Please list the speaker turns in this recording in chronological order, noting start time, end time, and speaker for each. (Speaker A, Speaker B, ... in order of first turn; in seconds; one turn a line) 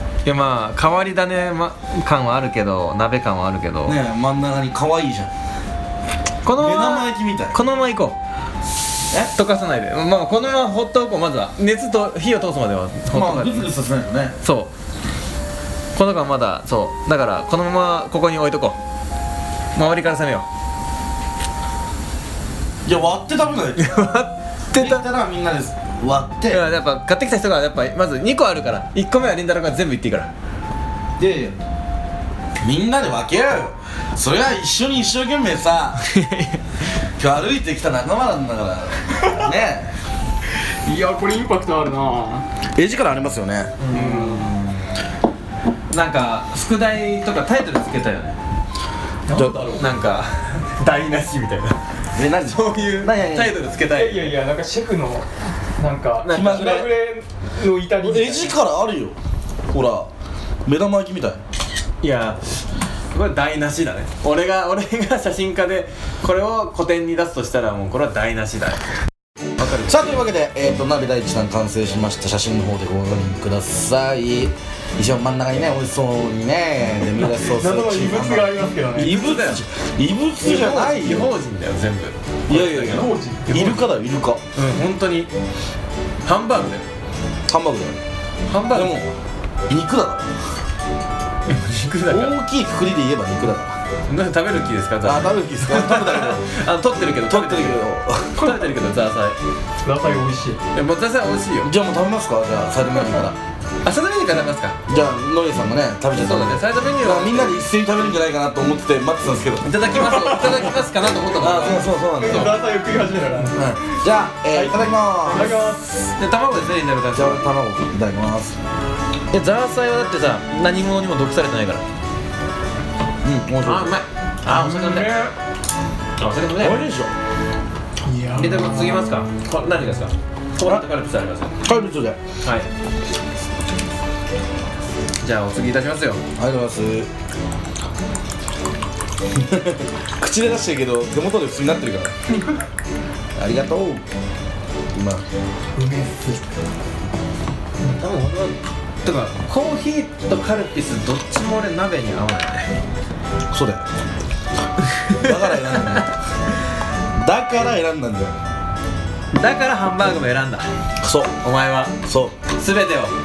Speaker A: 0.2-4.0
Speaker B: 3.9-5.3
Speaker A: 6.4-8.2
Speaker B: 6.5-7.6
Speaker A: 9.3-13.7
Speaker B: 13.1-14.3
Speaker A: 14.4-14.7
Speaker A: 16.0-18.8
Speaker A: 19.8-20.5
Speaker B: 22.9-24.0
Speaker A: 23.8-25.0
Speaker B: 24.8-26.6
Speaker A: 26.5-30.3
Speaker B: 31.2-31.6
Speaker B: 32.6-36.0
Speaker A: 36.0-36.6
Speaker B: 37.2-39.9
Speaker C: 40.8-42.5
Speaker B: 42.8-43.7
Speaker A: 43.8-44.9
Speaker C: 43.9-44.5
Speaker A: 45.9-48.4
Speaker C: 49.3-49.9
Speaker B: 49.3-49.6
Speaker A: 49.8-51.8
Speaker B: 52.1-53.6
Speaker A: 52.5-54.3
Speaker C: 53.9-58.6
Speaker A: 56.2-56.7
Speaker B: 56.3-56.9
Speaker B: 58.0-59.2
Speaker B: 59.7-60.1
Speaker B: 60.7-61.4
Speaker A: 62.0-68.8
Speaker B: 69.6-81.3
Speaker C: 77.2-79.4
Speaker A: 79.0-79.6
Speaker A: 80.4-83.1
Speaker C: 82.5-83.8
Speaker B: 82.5-84.4
Speaker A: 84.5-85.3
Speaker A: 86.2-86.8
Speaker B: 87.5-88.0
Speaker A: 88.5-89.0
Speaker B: 88.7-89.1
Speaker B: 89.7-90.3
Speaker A: 91.5-92.4
Speaker B: 92.1-93.8
Speaker A: 94.1-99.4
Speaker B: 95.0-96.5
Speaker B: 97.2-98.4
Speaker C: 99.8-100.6
Speaker A: 100.7-101.7
Speaker B: 101.6-103.4
Speaker A: 103.8-104.8
Speaker B: 104.9-109.7
Speaker A: 106.2-107.6
Speaker A: 109.6-112.5
Speaker C: 110.0-110.7
Speaker B: 111.4-112.6
Speaker C: 112.2-113.7
Speaker B: 113.6-115.7
Speaker C: 114.5-116.1
Speaker A: 116.2-117.5
Speaker B: 117.2-118.6
Speaker A: 119.3-121.8
Speaker B: 123.2-123.9
Speaker A: 123.6-125.2
Speaker C: 124.5-125.3
Speaker A: 126.2-126.8
Speaker B: 126.6-127.1
Speaker C: 128.1-129.1
Speaker A: 128.4-131.6
Speaker B: 131.6-132.2
Speaker A: 132.4-132.7
Speaker A: 135.2-136.2
Speaker B: 136.4-137.1
Speaker B: 139.3-142.1
Speaker B: 143.4-144.0
Speaker B: 144.9-145.2
Speaker C: 145.8-146.5
Speaker A: 147.8-152.7
Speaker B: 153.5-153.8
Speaker A: 154.9-156.1
Speaker B: 155.2-156.1
Speaker B: 157.2-158.3
Speaker A: 159.3-160.7
Speaker B: 161.0-161.4
Speaker A: 161.4-162.0
Speaker B: 162.0-162.4
Speaker A: 162.5-163.2